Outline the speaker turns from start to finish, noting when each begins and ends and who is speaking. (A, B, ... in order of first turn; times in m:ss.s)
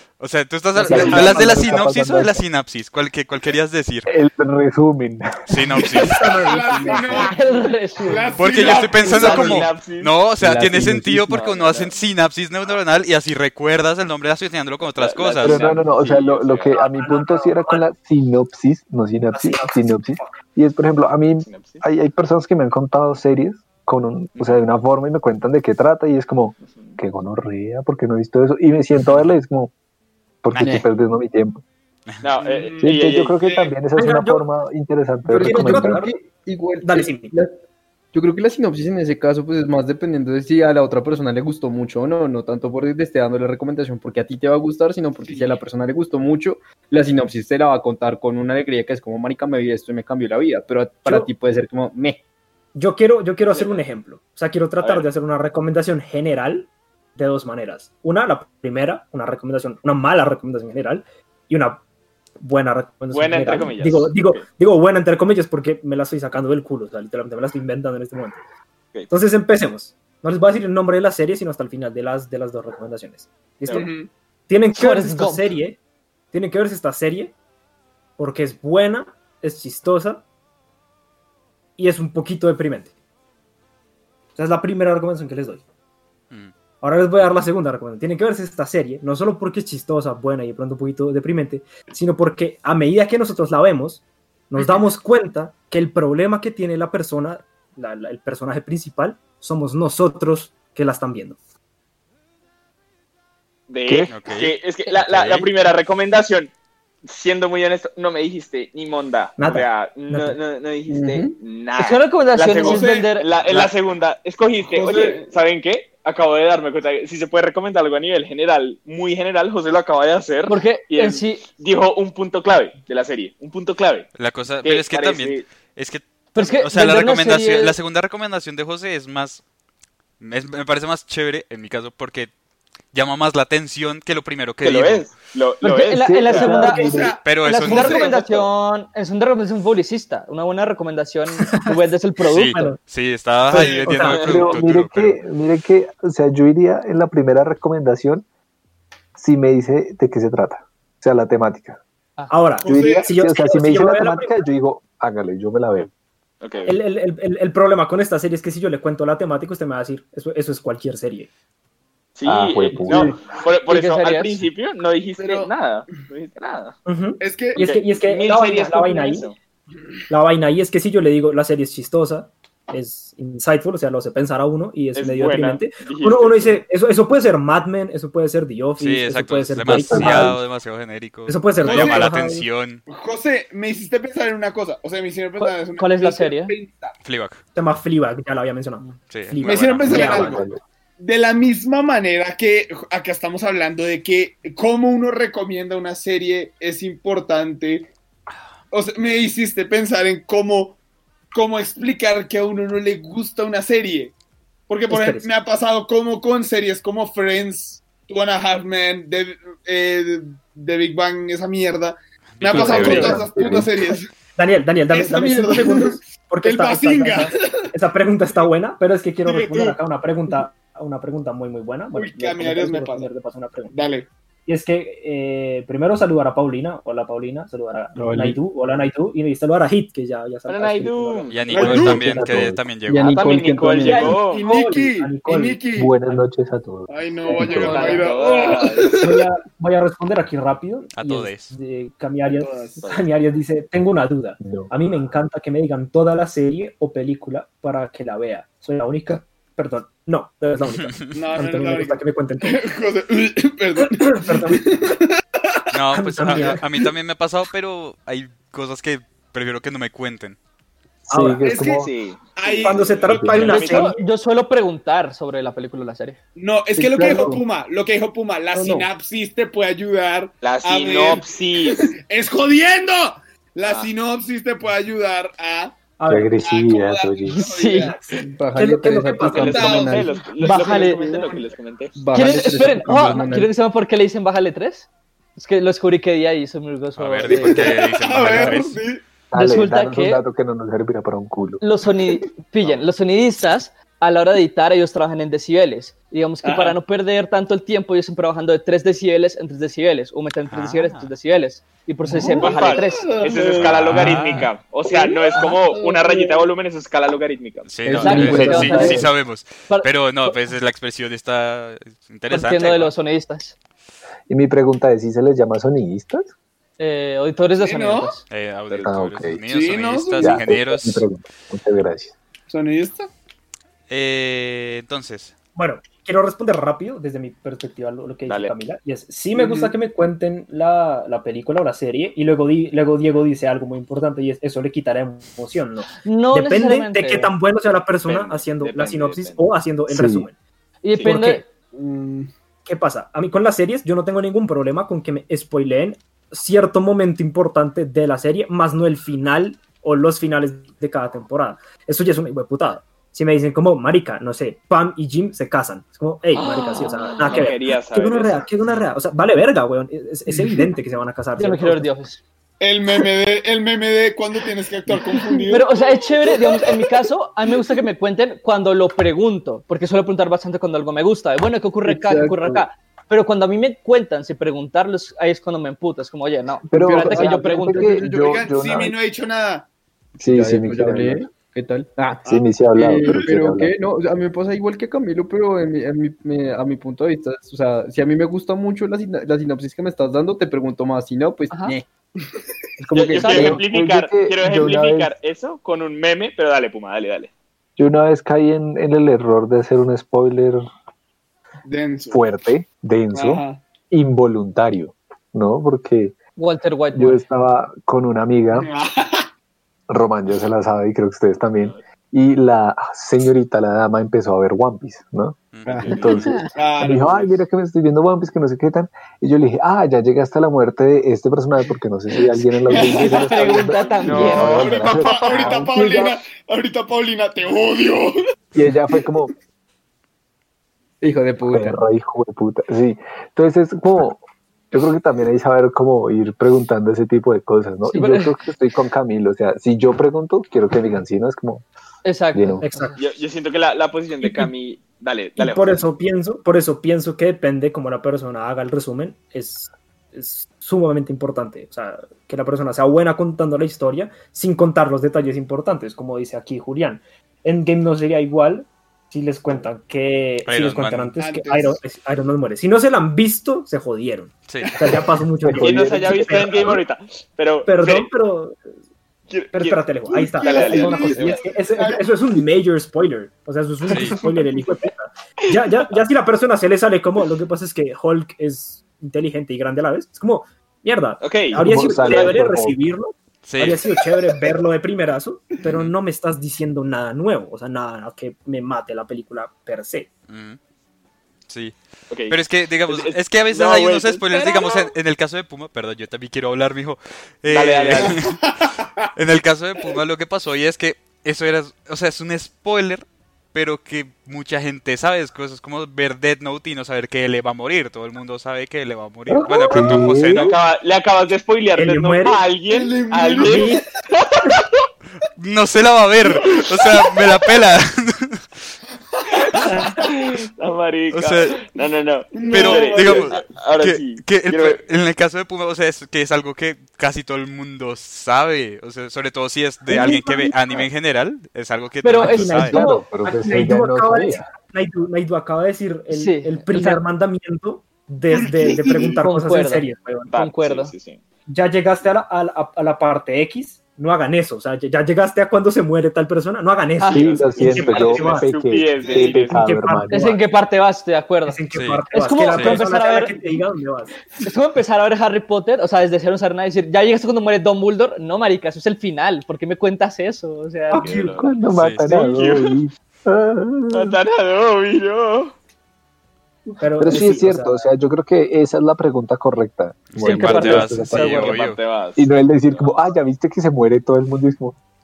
0:00.2-0:04.1 A
0:00.8-0:01.8 B
0:00.8-0:02.4 C
0:04.0-0:05.9 C
0:05.5-0:06.4 A
0:06.0-0:07.3 B
0:06.0-0:09.6 D
0:06.8-0:08.6 E
0:08.4-0:16.1 A
0:08.6-0:10.1 F
0:10.4-0:11.3 C
0:10.4-0:11.4 G
0:11.3-0:12.0 F
0:14.9-0:16.8 F
0:15.4-0:29.7 C
0:16.7-0:17.8 B
0:19.3-0:20.3 B
0:21.4-0:21.8 F
0:26.6-0:27.0 F
0:30.4-0:31.6 C
0:30.6-0:30.9 G
0:32.2-0:33.6 F
0:32.4-0:33.7 D
0:32.8-0:36.1 C
0:33.9-0:34.4 B
0:35.2-0:37.6 G
0:35.3-0:36.1 B
0:36.8-0:37.4 B
0:38.1-0:52.2 G
0:45.2-0:45.5 D
0:51.0-0:51.3 B
0:52.7-1:01.8 B
0:53.5-0:53.8 F
0:54.8-0:55.1 F
1:02.4-1:08.4 B
1:03.1-1:04.4 F
1:09.1-1:13.9 B
1:13.7-1:14.1 D
1:14.5-1:15.8 B
1:14.7-1:15.5 E
1:16.3-1:17.3 B
1:18.2-1:20.2 B
1:21.8-1:22.9 B
1:24.4-1:25.6 B
1:26.8-1:41.4 B
1:43.7-1:46.5 F
1:43.9-1:44.1 C
1:44.1-1:45.5 A
1:47.0-2:04.1 F
1:49.4-1:50.4 B
1:50.9-1:51.4 G
1:51.8-1:53.3 E
1:52.5-1:53.1 D
1:54.6-1:55.3 D
2:00.5-2:01.5 E
2:04.1-2:09.4 A
2:04.6-2:05.5 F
2:06.3-2:07.8 E
2:10.2-2:12.3 A
2:12.9-2:15.1 A
2:14.6-2:16.7 F
2:15.6-2:22.7 E
2:16.0-2:17.2 C
2:16.5-2:18.4 D
2:17.2-2:18.0 A
2:17.6-2:18.5 F
2:21.4-2:21.8 B
2:22.2-2:25.2 A
2:23.5-2:24.3 B
2:23.5-2:24.1 D
2:24.2-2:28.2 C
2:29.2-2:31.8 C
2:32.3-2:34.4 B
2:32.6-2:33.1 D
2:32.6-2:35.9 C
2:36.4-2:36.8 F
2:36.6-2:41.3 B
2:42.2-2:46.8 F
2:42.2-2:43.1 C
2:43.7-2:44.4 E
2:45.2-2:45.5 D
2:46.8-2:49.3 B
2:47.2-2:47.6 D
2:47.6-2:49.4 F
2:50.1-3:00.4 B
2:54.9-2:56.6 F
2:58.8-3:02.8 A
2:59.7-3:00.4 C
3:01.2-3:02.5 B
3:01.6-3:02.1 D
3:02.9-3:07.0 D
3:05.4-3:06.5 E
3:07.0-3:07.4 A
3:07.5-3:10.4 B
3:09.1-3:10.4 A
3:09.4-3:10.4 D
3:09.8-3:10.6 C
3:11.0-3:17.9 D
3:18.7-3:20.8 D
3:21.3-3:24.1 D
3:24.7-3:34.1 D
3:24.9-3:25.3 B
3:32.4-3:33.3 A
3:32.5-3:33.7 C
3:32.7-3:33.2 B
3:34.4-3:43.7 B
3:34.9-3:37.7 D
3:39.2-3:39.8 D
3:41.9-3:43.1 D
3:43.7-3:44.1 D
3:44.4-3:52.5 B
3:48.0-3:48.4 C
3:50.5-3:51.5 F
3:51.3-3:53.2 A
3:51.5-3:52.1 D
3:51.6-3:52.6 C
3:52.8-3:54.2 G
3:53.0-3:54.4 F
3:53.9-3:54.1 E
3:54.2-3:55.9 D
3:54.4-3:56.2 B
3:55.8-3:57.8 C
3:56.9-3:59.2 D
3:57.5-3:59.0 F
3:58.9-4:12.6 B
4:01.0-4:01.5 A
4:02.2-4:02.8 D
4:04.4-4:04.7 C
4:10.7-4:11.2 A
4:11.1-4:15.7 D
4:13.9-4:14.9 B
4:15.7-4:20.4 A
4:15.9-4:16.6 B
4:21.1-4:21.9 C
4:21.1-4:21.4 B
4:21.4-4:23.2 D
4:21.7-4:24.0 F
4:22.6-4:24.0 B
4:23.0-4:23.6 C
4:23.4-4:26.2 E
4:26.3-4:35.8 D
4:26.8-4:27.4 G
4:28.5-4:28.9 B
4:30.4-4:31.9 F
4:33.6-4:33.9 F
4:36.0-4:36.3 B
4:36.1-4:37.4 C
4:36.4-4:38.2 D
4:37.2-4:38.0 E
4:37.8-4:39.8 B
4:38.2-4:40.1 G
4:39.3-4:42.4 F
4:39.4-4:41.5 D
4:40.4-4:41.0 E
4:41.9-4:43.5 G
4:42.1-4:47.8 E
4:46.9-4:48.8 A
4:47.3-4:49.0 D
4:49.3-4:51.6 C
4:49.3-4:50.2 E
4:51.6-5:03.4 E
4:56.4-4:56.8 D
5:00.5-5:01.1 A
5:02.0-5:02.5 G
5:02.3-5:04.0 D
5:02.4-5:07.7 F
5:03.5-5:04.5 A
5:04.0-5:04.4 G
5:04.9-5:06.4 D
5:07.6-5:12.9 A
5:07.8-5:09.1 G
5:07.9-5:09.1 E
5:09.7-5:10.5 E
5:12.3-5:13.6 E
5:14.3-5:16.3 C
5:16.8-5:18.2 E
5:17.6-5:18.2 D
5:18.3-5:21.1 A
5:18.8-5:19.4 C
5:19.5-5:20.4 D
5:20.2-5:22.1 C
5:22.5-5:23.1 D
5:23.9-5:25.3 A
5:25.6-5:40.3 B
5:28.3-5:28.5 F
5:29.3-5:29.7 D
5:36.0-5:37.3 E
5:38.0-5:39.5 F
5:39.9-5:40.3 C
5:40.8-5:41.5 E
5:41.0-5:41.4 B
5:41.7-5:42.3 D
5:42.6-6:01.9 B
5:56.4-5:58.5 F
5:58.6-5:58.9 A
6:00.4-6:00.6 G
6:01.4-6:02.2 E
6:02.6-6:06.8 D
6:04.9-6:05.2 G
6:05.5-6:18.0 E
6:11.8-6:12.6 G
6:16.7-6:19.0 C
6:16.7-6:18.9 G
6:18.0-6:19.7 D
6:20.2-6:31.9 G
6:20.2-6:21.2 C
6:22.2-6:23.7 C
6:31.5-6:31.8 E
6:32.8-6:33.6 G
6:32.9-6:37.3 F
6:33.2-6:33.6 E
6:33.3-6:35.1 C
6:37.8-6:40.7 C
6:41.6-6:42.2 D
6:42.1-6:46.2 C
6:43.1-6:43.6 D
6:46.4-6:47.2 E
6:46.9-6:48.7 C
6:48.5-6:49.3 D
6:49.9-7:06.0 C
6:55.5-6:56.3 A
6:55.6-6:56.5 G
6:55.9-6:56.2 F
6:56.5-6:57.4 D
7:02.7-7:08.2 D
7:02.7-7:05.6 E
7:03.9-7:04.9 F
7:05.4-7:06.1 G
7:08.5-7:09.3 C
7:11.0-7:11.8 G
7:11.5-7:21.6 C
7:17.9-7:18.4 E
7:22.0-7:22.9 E
7:22.3-7:22.6 C
7:22.6-7:23.0 B
7:23.0-7:25.8 F
7:25.4-7:46.8 B
7:40.4-7:41.2 A
7:41.2-7:41.8 D
7:44.5-7:44.7 A
7:44.6-7:45.0 D
7:45.4-7:46.6 C
7:45.6-7:48.1 F
7:47.6-7:48.6 B
7:49.3-7:51.4 F
7:49.5-8:10.1 B
7:50.1-7:52.0 D
7:53.9-7:54.2 A
7:55.5-7:55.8 F
8:01.2-8:02.4 F
8:01.5-8:02.8 C
8:03.4-8:03.8 A
8:05.6-8:05.9 A
8:10.3-8:10.6 A
8:11.5-8:11.7 A
8:12.1-8:12.4 F
8:12.3-8:18.4 A
8:12.9-8:14.7 F
8:14.4-8:14.8 D
8:17.5-8:18.2 F
8:17.9-8:19.0 D
8:19.2-8:30.6 A
8:29.6-8:30.5 C
8:30.3-8:34.7 F
8:31.7-8:32.4 B
8:32.7-8:33.8 D
8:33.4-8:33.8 B
8:35.4-8:38.7 A
8:36.3-8:36.6 D
8:39.2-8:40.1 D
8:39.7-8:44.8 F
8:41.1-8:41.6 A
8:42.3-8:43.3 D
8:42.5-8:52.8 A
8:49.9-8:50.8 B
8:52.0-8:53.0 E
8:52.2-9:00.3 B
8:52.5-8:54.5 C
8:56.1-8:57.0 E
8:58.3-8:59.2 D
8:59.2-9:00.9 E
9:00.3-9:01.2 F
9:01.5-9:08.5 B
9:07.0-9:07.9 E
9:07.1-9:10.3 C
9:07.1-9:09.6 F
9:09.0-9:09.4 D
9:09.5-9:10.4 B
9:10.1-9:13.4 E
9:11.4-9:14.1 B
9:11.7-9:12.8 A
9:14.4-9:21.1 E
9:20.9-9:21.4 B
9:20.9-9:22.8 F
9:21.3-9:24.2 C
9:21.8-9:22.0 A
9:23.9-9:25.5 F
9:26.8-9:27.9 B
9:27.0-9:31.4 C
9:30.1-9:31.8 A
9:30.2-9:31.6 E
9:31.2-9:33.0 F
9:32.2-9:34.8 C